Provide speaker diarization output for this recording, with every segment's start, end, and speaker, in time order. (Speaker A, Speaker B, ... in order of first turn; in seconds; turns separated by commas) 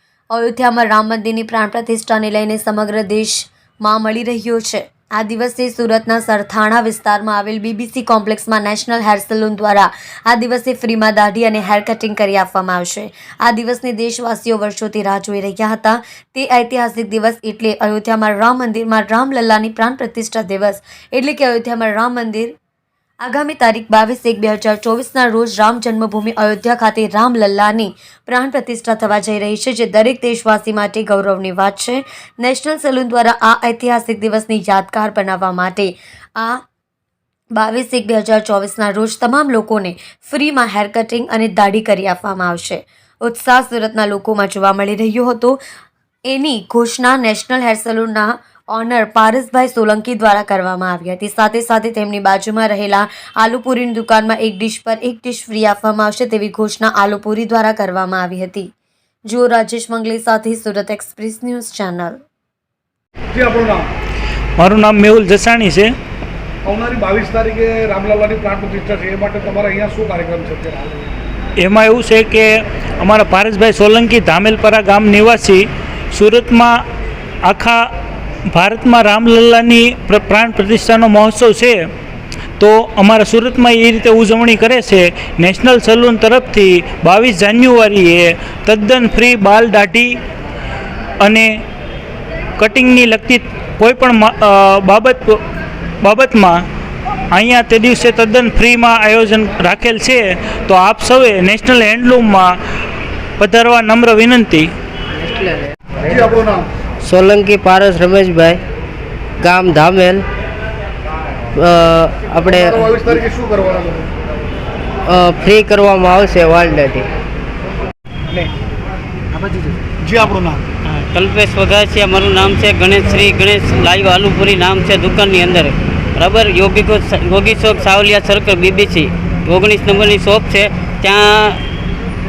Speaker A: 0.3-22.5, Speaker A: 23.2-36.6, Speaker A: 37.5-45.6, Speaker A: 46.3-58.7, Speaker A: 59.3-62.2, Speaker B: 63.3-63.9, Speaker C: 64.6-65.9, Speaker B: 66.7-71.1, Speaker C: 71.6-76.8, Speaker C: 77.4-77.9, Speaker C: 78.5-81.9, Speaker C: 82.6-90.2, Speaker C: 91.2-91.6, Speaker C: 92.6-95.4, Speaker C: 96.0-96.6, Speaker C: 97.3-102.5, Speaker C: 103.4-104.7, Speaker D: 105.2-105.7, Speaker B: 106.0-106.7, Speaker D: 107.0-108.6, Speaker D: 109.4-110.3, Speaker D: 111.5-113.2, Speaker B: 112.5-114.1, Speaker D: 115.1-117.1, Speaker B: 119.3-120.7, Speaker E: 120.9-131.6